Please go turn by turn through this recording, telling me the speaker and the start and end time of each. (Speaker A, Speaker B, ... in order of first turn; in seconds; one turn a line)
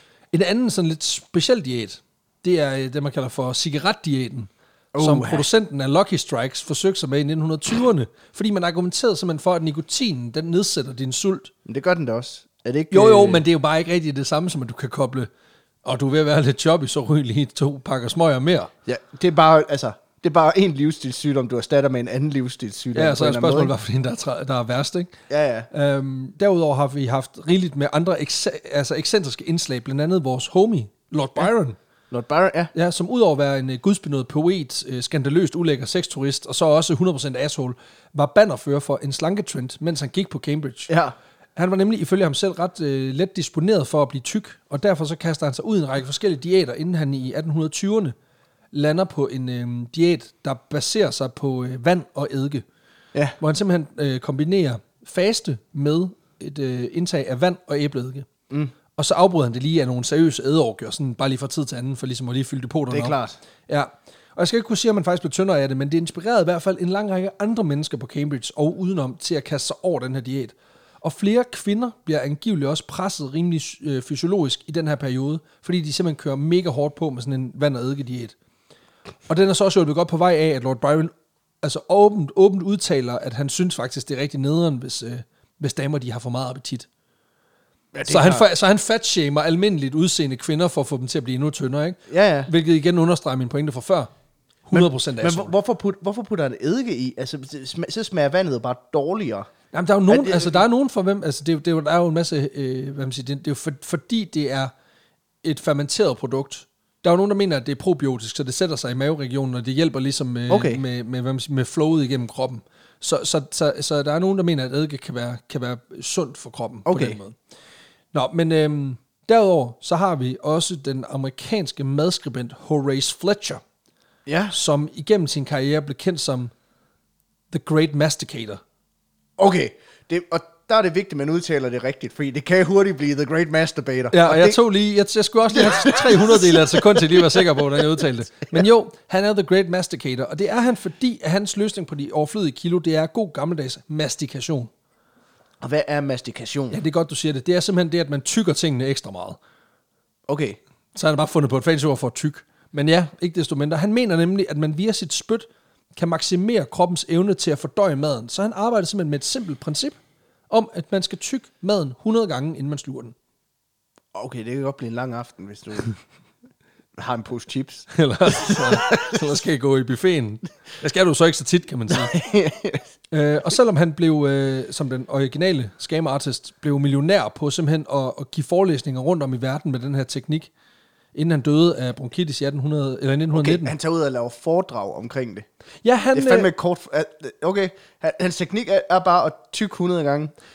Speaker A: 0.3-11.5
Speaker B: 4.9-5.5
Speaker B: 11.7-13.4
Speaker A: 12.9-15.3
Speaker A: 15.8-18.7
Speaker B: 18.9-23.7
Speaker A: 22.9-25.1
Speaker B: 25.3-25.7
Speaker A: 25.7-31.8
Speaker B: 32.1-32.7
Speaker A: 32.7-40.9
Speaker B: 40.9-41.1
Speaker A: 41.5-48.1
Speaker A: 48.7-52.6
Speaker A: 53.4-58.3
Speaker A: 58.9-63.2
Speaker B: 62.9-63.4
Speaker A: 63.7-78.3
Speaker A: 79.3-81.1
Speaker A: 81.6-86.9
Speaker B: 87.9-88.5
Speaker A: 88.0-94.1
Speaker B: 92.1-92.5
Speaker A: 94.6-95.5
Speaker B: 94.7-99.5
Speaker A: 99.7-104.7
Speaker B: 100.1-100.6
Speaker A: 105.4-117.3
Speaker B: 110.5-110.8
Speaker B: 116.8-117.2
Speaker A: 118.1-123.6
Speaker B: 124.2-124.5
Speaker A: 124.5-126.5
Speaker A: 127.5-128.6
Speaker B: 129.4-134.6
Speaker A: 134.1-144.7
Speaker B: 135.5-138.6
Speaker B: 145.6-146.8
Speaker A: 146.7-149.4
Speaker B: 150.3-150.6
Speaker A: 150.9-160.0
Speaker A: 160.5-163.1
Speaker B: 164.1-166.0
Speaker B: 166.9-169.3
Speaker A: 167.9-172.1
Speaker B: 171.9-172.8
Speaker A: 173.1-180.5
Speaker A: 181.1-183.7
Speaker B: 183.3-185.4
Speaker A: 185.8-186.5
Speaker B: 186.1-190.3